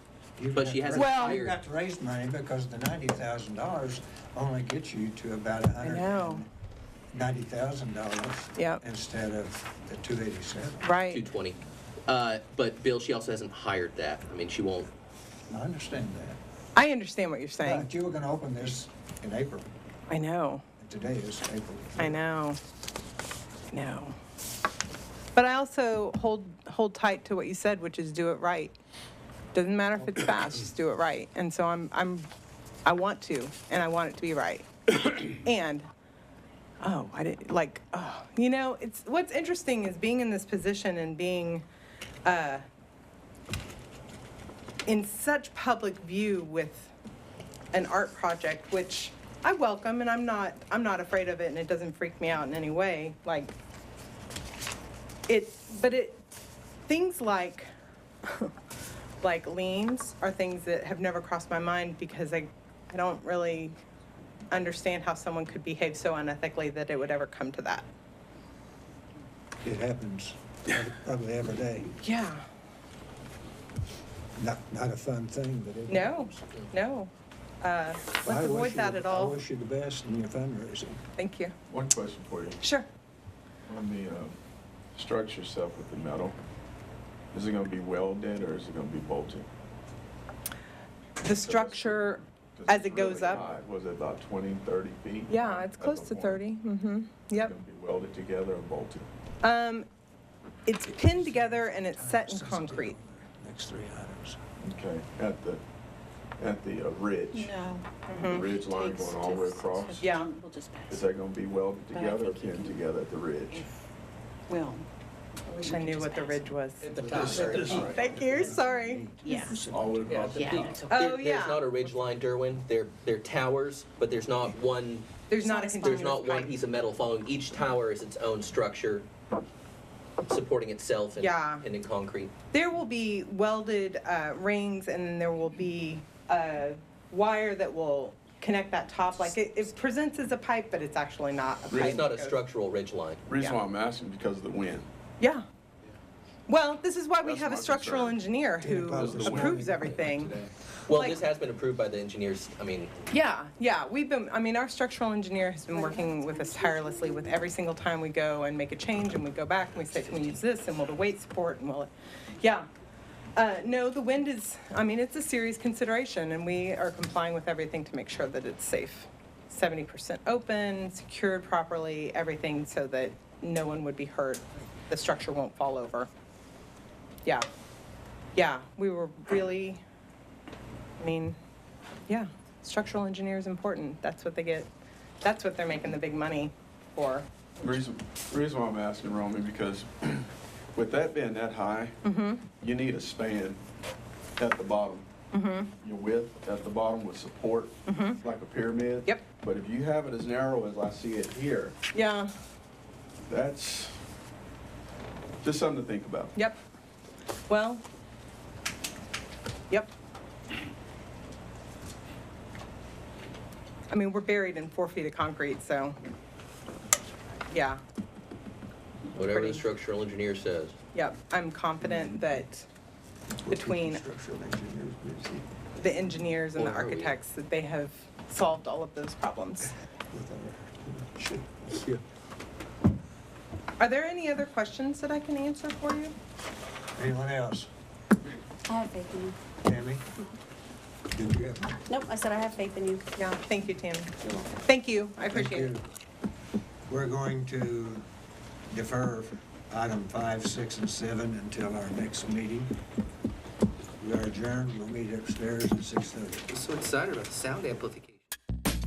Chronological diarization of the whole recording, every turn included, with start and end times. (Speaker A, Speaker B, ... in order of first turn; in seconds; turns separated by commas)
Speaker A: 0.4-6.5, Speaker B: 0.5-1.6, Speaker C: 0.9-1.4, Speaker C: 5.8-6.4, Speaker A: 7.1-11.0, Speaker C: 8.6-8.8, Speaker C: 10.8-11.2, Speaker B: 11.1-14.9, Speaker A: 15.5-16.4, Speaker C: 16.8-17.9, Speaker A: 17.6-19.7, Speaker C: 20.1-20.6, Speaker A: 20.8-22.2, Speaker C: 22.0-22.6, Speaker C: 23.7-24.2, Speaker C: 25.4-28.8, Speaker C: 29.5-32.3, Speaker C: 32.9-35.9, Speaker C: 36.8-41.6, Speaker C: 42.2-42.6, Speaker C: 44.9-46.9, Speaker C: 47.7-53.6, Speaker C: 55.3-56.2, Speaker C: 56.9-57.7, Speaker C: 58.3-58.5, Speaker C: 59.2-63.8, Speaker C: 64.5-67.9, Speaker A: 69.6-72.0, Speaker C: 72.0-72.4, Speaker A: 74.4-76.4, Speaker C: 75.9-79.4, Speaker A: 78.2-81.0, Speaker C: 81.2-81.5, Speaker D: 81.7-82.6, Speaker C: 82.6-82.9, Speaker D: 83.7-84.4, Speaker D: 85.0-86.4, Speaker D: 87.3-89.5, Speaker C: 91.2-93.4, Speaker D: 91.3-96.4, Speaker C: 95.3-97.5, Speaker D: 97.3-99.1, Speaker C: 99.4-99.9, Speaker C: 100.7-103.0, Speaker A: 100.9-104.4, Speaker D: 104.6-105.6, Speaker D: 106.4-107.6, Speaker E: 107.3-111.0, Speaker C: 108.1-108.5, Speaker D: 108.2-110.2, Speaker C: 110.0-110.3, Speaker D: 110.9-113.7, Speaker E: 111.9-112.8, Speaker E: 113.5-113.7, Speaker E: 114.5-114.9, Speaker E: 115.5-116.5, Speaker C: 115.5-119.5, Speaker B: 116.8-117.9, Speaker E: 117.0-118.6, Speaker A: 117.1-120.4, Speaker D: 117.1-118.1, Speaker E: 119.2-119.6, Speaker D: 119.7-120.9, Speaker B: 120.1-129.1, Speaker E: 120.4-121.1, Speaker C: 120.9-121.7, Speaker C: 125.3-126.5, Speaker B: 130.2-132.3, Speaker C: 131.2-131.7, Speaker C: 132.5-142.4, Speaker D: 141.7-142.0, Speaker B: 141.7-143.2, Speaker D: 143.3-144.9, Speaker C: 145.2-145.4, Speaker C: 146.5-151.2, Speaker D: 147.2-148.2, Speaker A: 148.6-150.0, Speaker D: 148.8-149.6, Speaker B: 149.8-152.9, Speaker C: 153.1-162.7, Speaker F: 155.8-156.9, Speaker C: 163.3-176.1, Speaker C: 178.3-179.8, Speaker C: 181.0-181.4, Speaker C: 182.1-184.7, Speaker C: 185.2-187.3, Speaker D: 187.6-192.0, Speaker C: 192.0-192.5, Speaker D: 192.5-193.6, Speaker D: 194.4-195.1, Speaker C: 195.3-195.7, Speaker D: 195.8-201.8, Speaker C: 197.9-198.2, Speaker C: 201.9-202.3, Speaker D: 203.3-204.0, Speaker D: 205.4-206.3, Speaker C: 207.5-207.8, Speaker C: 213.9-216.0, Speaker C: 217.5-217.8, Speaker B: 219.1-220.8, Speaker C: 220.9-222.7, Speaker A: 223.4-225.5, Speaker C: 223.5-224.0, Speaker C: 225.8-229.7, Speaker B: 226.6-227.2, Speaker A: 230.1-232.0, Speaker C: 233.8-236.1, Speaker A: 236.9-237.7, Speaker F: 238.7-239.4, Speaker A: 239.6-240.1, Speaker A: 241.1-241.8, Speaker F: 241.9-243.0, Speaker C: 243.2-244.1, Speaker A: 244.2-244.6, Speaker C: 244.6-245.7, Speaker A: 245.2-245.8, Speaker A: 246.9-248.1, Speaker A: 248.7-252.7, Speaker A: 254.0-256.4, Speaker B: 256.5-258.3